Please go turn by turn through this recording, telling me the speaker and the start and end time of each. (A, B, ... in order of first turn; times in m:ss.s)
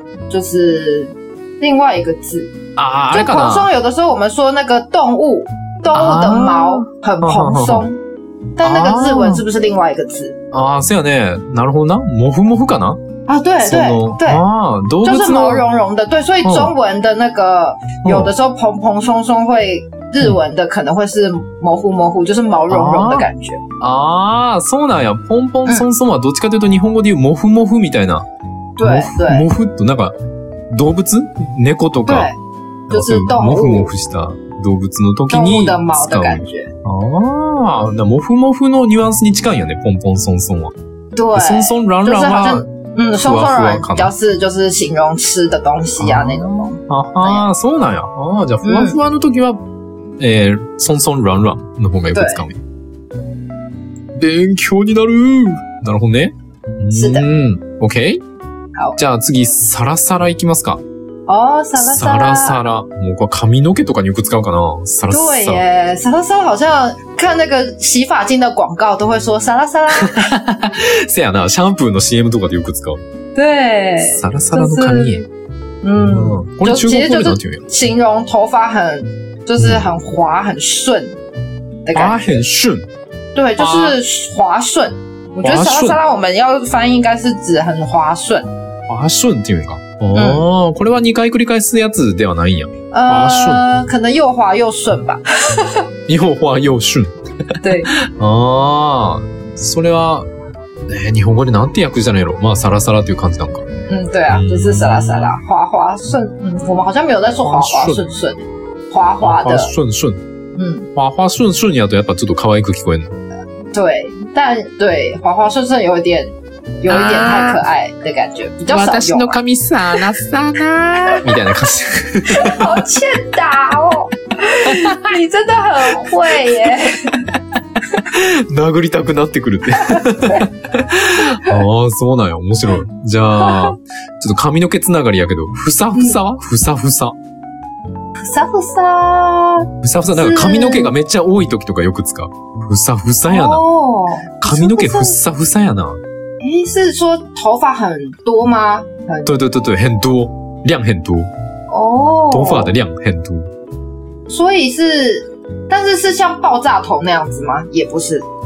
0:00.3-0:02.6 A
0:02.8-0:03.7 B
0:03.1-0:08.0 A
0:05.9-0:07.9 B
0:08.6-0:10.4 A
0:08.6-0:09.4 B
0:10.5-0:13.0 B
0:13.3-0:14.4 A
0:13.6-0:15.7 B
0:15.0-0:23.6 A
0:16.4-0:16.7 B
0:18.0-0:18.3 B
0:22.7-0:23.3 B
0:23.8-0:28.3 B
0:28.8-0:29.5 A
0:28.8-0:30.2 B
0:30.7-0:32.3 B
0:32.1-0:32.4 A
0:32.9-0:40.7 B
0:32.9-0:33.9 A
0:35.3-0:36.7 A
0:41.2-0:47.5 A
0:41.4-0:42.7 B
0:43.2-0:44.1 B
0:46.0-0:49.6 B
0:48.6-0:49.0 A
0:50.2-0:52.6 B
0:52.1-0:52.4 A
0:54.2-0:58.2 B
0:56.9-0:57.3 A
0:59.0-1:00.8 B
1:01.3-1:02.6 A
1:01.8-1:05.6 B
1:05.1-1:10.4 A
1:09.9-1:13.0 B
1:13.4-1:15.3 A
1:14.0-1:15.3 B
1:15.8-1:21.2 A
1:16.0-1:17.7 B
1:19.6-1:19.9 B
1:21.8-1:22.4 A
1:21.9-1:22.9 B
1:23.4-1:28.5 A
1:23.6-1:24.0 B
1:25.4-1:26.0 B
1:28.9-1:33.6 B
1:30.1-1:30.4 A
1:32.9-1:35.9 A
1:36.1-1:40.3 B
1:37.6-1:37.9 A
1:40.9-1:43.6 B
1:43.9-1:49.7 A
1:44.3-1:45.4 B
1:47.4-1:48.0 B
1:49.2-1:50.2 B
1:50.6-1:50.9 A
1:51.0-1:53.1 B
1:53.7-1:59.4 A
1:56.9-1:57.6 B
1:58.7-2:02.8 B
2:01.0-2:01.4 A
2:02.3-2:07.3 A
2:04.6-2:05.1 B
2:08.0-2:17.2 B
2:09.8-2:10.4 A
2:13.4-2:13.8 A
2:18.2-2:20.9 A
2:19.8-2:23.6 B
2:23.3-2:25.2 A
2:24.4-2:26.0 B
2:26.4-2:29.3 A
2:29.2-2:31.3 B
2:31.7-2:32.7 A
2:32.3-2:33.5 B
2:34.3-2:38.3 A